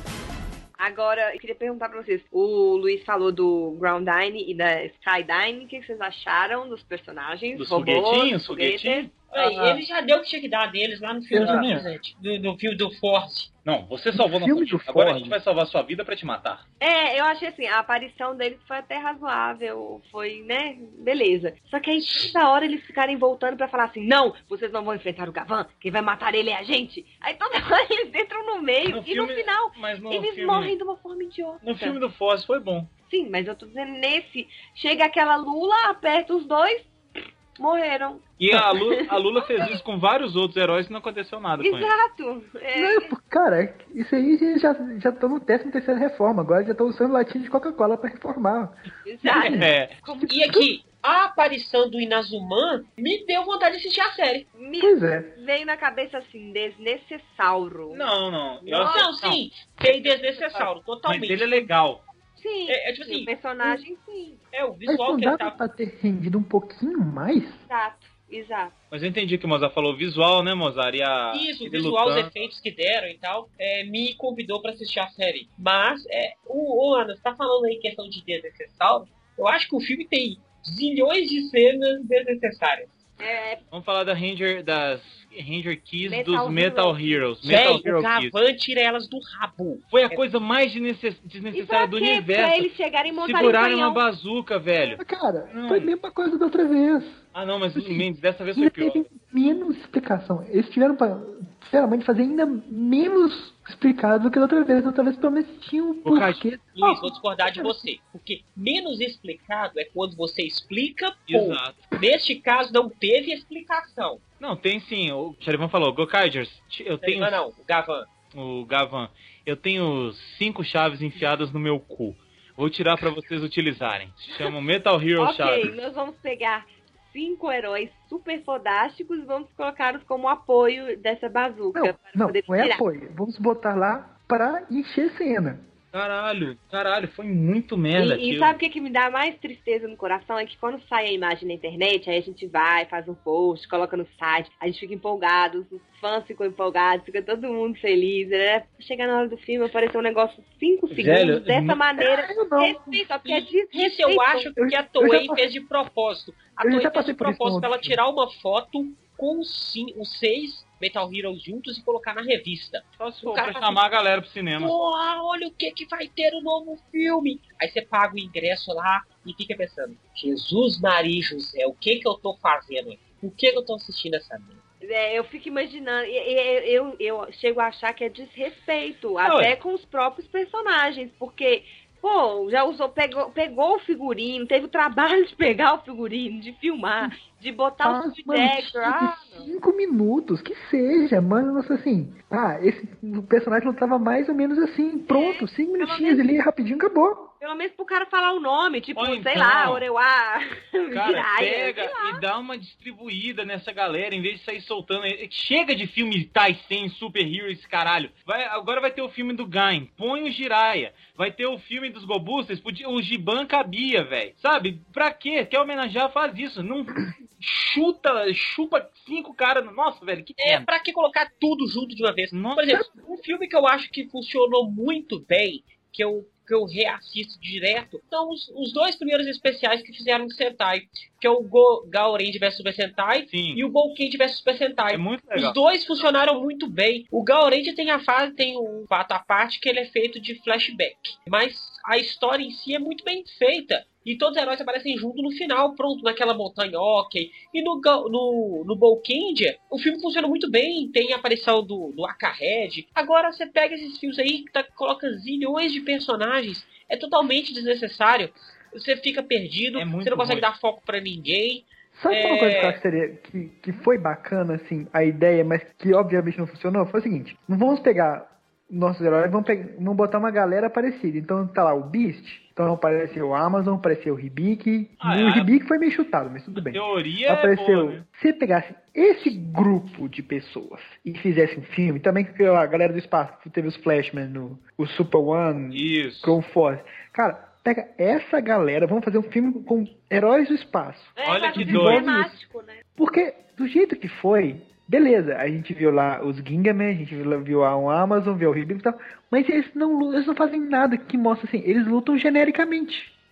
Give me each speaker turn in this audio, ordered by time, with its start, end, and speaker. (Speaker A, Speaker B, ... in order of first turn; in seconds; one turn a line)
Speaker A: 0.8-9.1
Speaker B: 7.5-9.8
Speaker C: 9.3-13.5
Speaker D: 11.3-11.9
Speaker B: 11.4-11.7
Speaker B: 13.6-16.6
Speaker D: 14.1-15.4
Speaker A: 16.8-32.0
Speaker B: 28.9-30.8
Speaker B: 31.6-32.9
Speaker A: 33.1-36.9
Speaker A: 37.6-39.8
Speaker B: 38.4-41.9
Speaker A: 41.6-43.1
Speaker D: 42.7-48.8
Speaker A: 49.0-50.5
Speaker B: 49.4-49.9
Speaker D: 50.2-50.7
Speaker C: 50.3-54.5
Speaker A: 54.5-58.1
Speaker D: 54.8-55.4
Speaker B: 57.9-62.0
Speaker C: 58.7-61.7
Speaker A: 58.7-59.1
Speaker A: 62.4-64.4
Speaker C: 62.7-63.3
Speaker C: 64.5-65.6
Speaker D: 64.9-67.6
Speaker A: 67.7-68.7
Speaker B: 68.9-72.3
Speaker C: 71.3-83.0
Speaker A: 83.2-83.6
Speaker B: 83.7-88.3
Speaker A: 86.0-87.2
Speaker C: 87.4-90.2
Speaker B: 89.9-95.9
Speaker A: 91.5-94.0
Speaker D: 95.0-97.2
Speaker B: 97.3-99.1
Speaker D: 97.7-107.8
Speaker B: 106.0-106.4
Speaker C: 106.8-114.2
Speaker B: 111.3-111.9
Speaker B: 114.4-117.4
Speaker C: 117.0-118.1
Speaker B: 118.3-125.7
Speaker A: 125.2-132.8
Speaker D: 131.7-135.7
Speaker B: 135.9-138.6
Speaker A: 137.9-154.5
Speaker B: 150.9-151.8
Speaker D: 152.0-153.1
Speaker C: 153.2-163.8
Speaker D: 154.6-155.4
Speaker D: 156.6-158.0
Speaker B: 163.0-164.7
Speaker C: 164.6-174.6
Speaker A: 174.8-189.5
Speaker B: 179.2-179.6
Speaker D: 187.8-197.3
Speaker A: 195.1-196.2
Speaker A: 197.4-202.2
Speaker B: 198.9-199.8
Speaker B: 200.9-220.7
Speaker C: 220.4-262.8
Speaker B: 222.3-222.8
Speaker B: 233.3-233.6
Speaker B: 234.9-235.6
Speaker B: 259.7-260.5
Speaker D: 261.9-292.4
Speaker B: 275.0-275.5
Speaker B: 276.5-278.0
Speaker B: 285.7-286.4
Speaker A: 291.2-292.8
Speaker B: 291.2-292.1
Speaker D: 293.0-303.1